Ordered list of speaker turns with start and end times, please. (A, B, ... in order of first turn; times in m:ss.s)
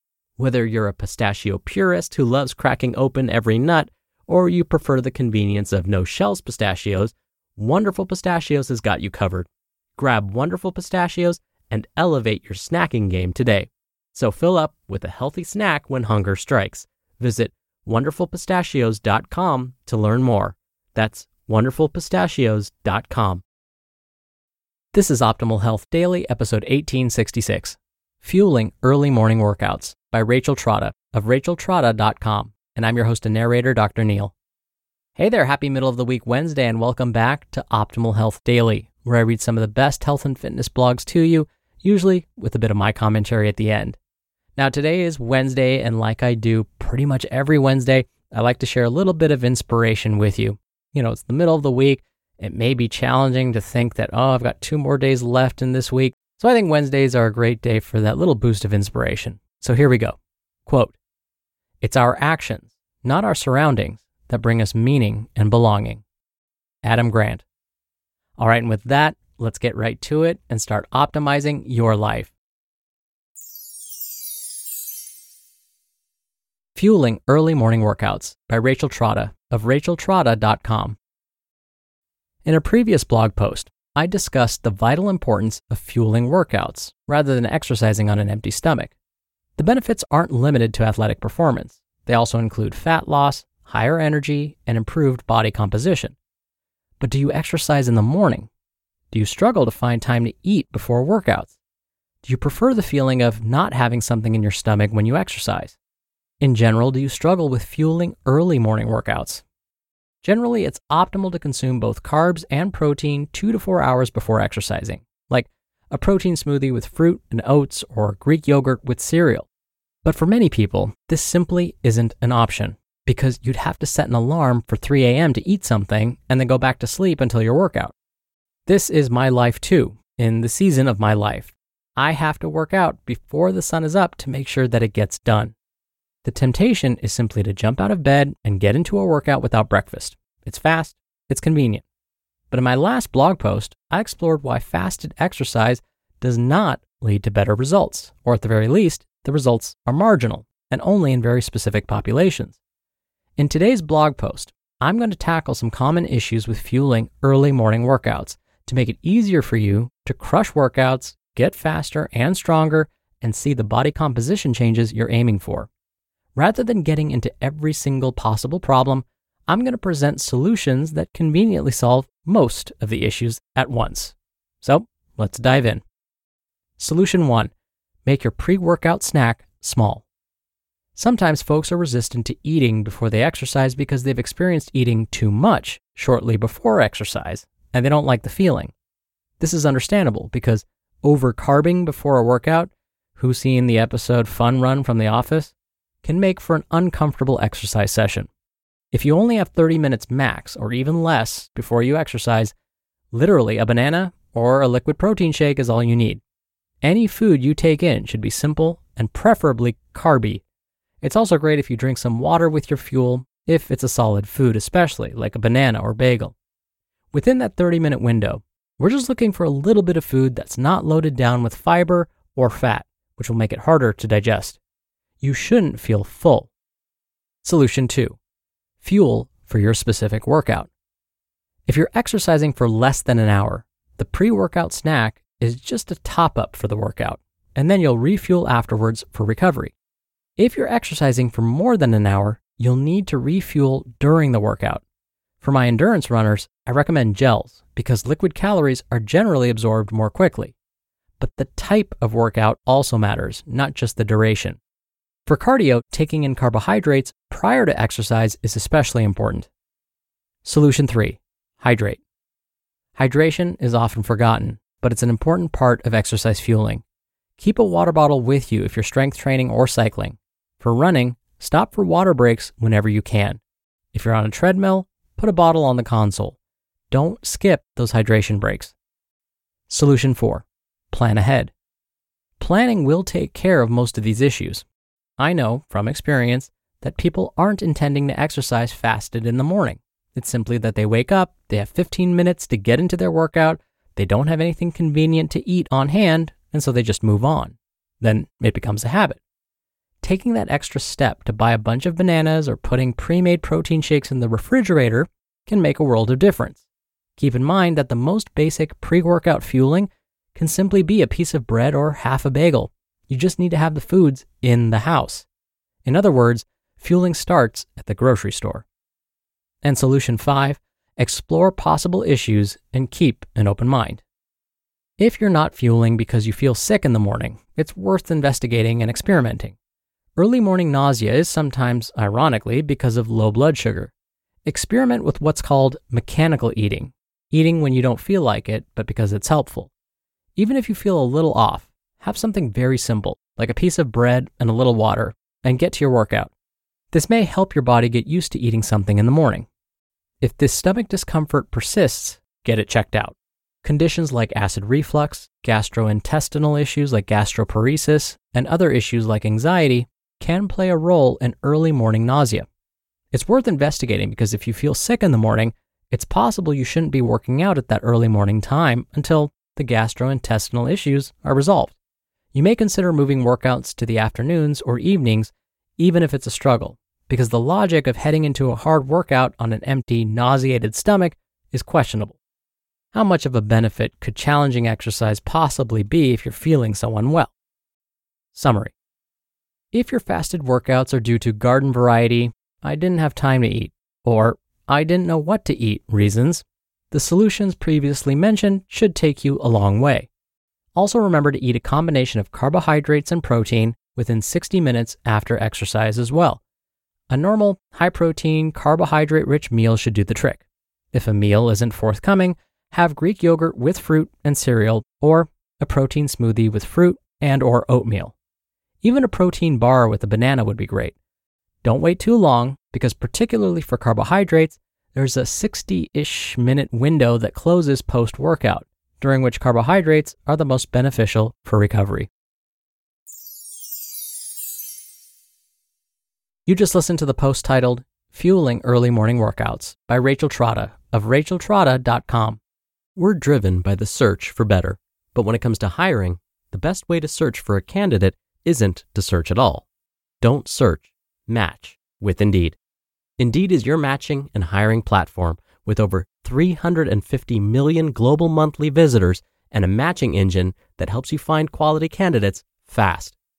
0:00.4-0:23.4 A
0:24.9-0:34.3 A
0:35.2-0:44.0 A
0:44.6-1:01.0 A
1:01.8-1:06.0 A
1:06.8-1:07.4 A
1:08.4-1:12.4 A
1:16.8-1:21.0 A
1:22.4-1:29.0 A
1:29.6-1:36.2 A
1:37.0-1:38.5 A
1:39.1-1:41.6 A
1:42.2-1:45.8 A
1:46.4-1:49.4 A
1:50.2-1:59.5 A
2:00.0-2:07.9 A
2:08.7-2:15.5 A
2:16.2-2:21.8 A
2:22.5-2:32.6 A
2:33.4-2:45.7 A
2:46.4-2:55.8 A
2:56.8-2:57.5 A
2:58.0-3:00.0 A
3:01.0-3:08.7 A
3:09.4-3:18.3 A
3:18.9-3:22.5 A
3:23.1-3:26.2 A
3:26.8-3:30.4 A
3:31.0-3:36.4 A
3:37.1-3:44.6 A
3:45.2-3:46.5 A
3:47.4-3:48.2 A
3:48.8-3:50.7 A
3:51.7-3:59.8 A
4:00.4-4:04.8 A
4:05.4-4:10.6 A
4:11.2-4:14.6 A
4:15.3-4:19.5 A
4:20.4-4:22.0 A
4:23.0-4:26.8 A
4:27.4-4:33.4 A
4:33.9-4:36.4 A
4:36.9-4:38.8 A
4:39.7-4:41.5 A
4:42.4-4:44.7 A
4:45.2-4:59.2 A
5:00.0-5:06.6 A
5:07.2-5:15.3 A
5:15.8-5:18.6 A
5:19.6-5:24.0 A
5:25.0-5:29.6 A
5:30.2-5:33.9 A
5:34.5-5:39.7 A
5:40.4-5:46.3 A
5:46.9-5:49.5 A
5:50.2-6:02.5 A
6:03.1-6:11.8 A
6:12.3-6:22.2 A
6:22.9-6:27.3 A
6:28.3-6:28.7 A
6:29.7-6:40.1 A
6:40.8-6:46.4 A
6:47.1-6:58.1 A
6:58.8-7:01.0 A
7:01.6-7:12.1 A
7:16.5-7:22.4 A
7:23.0-7:29.7 A
7:30.2-7:32.6 A
7:33.2-7:43.2 A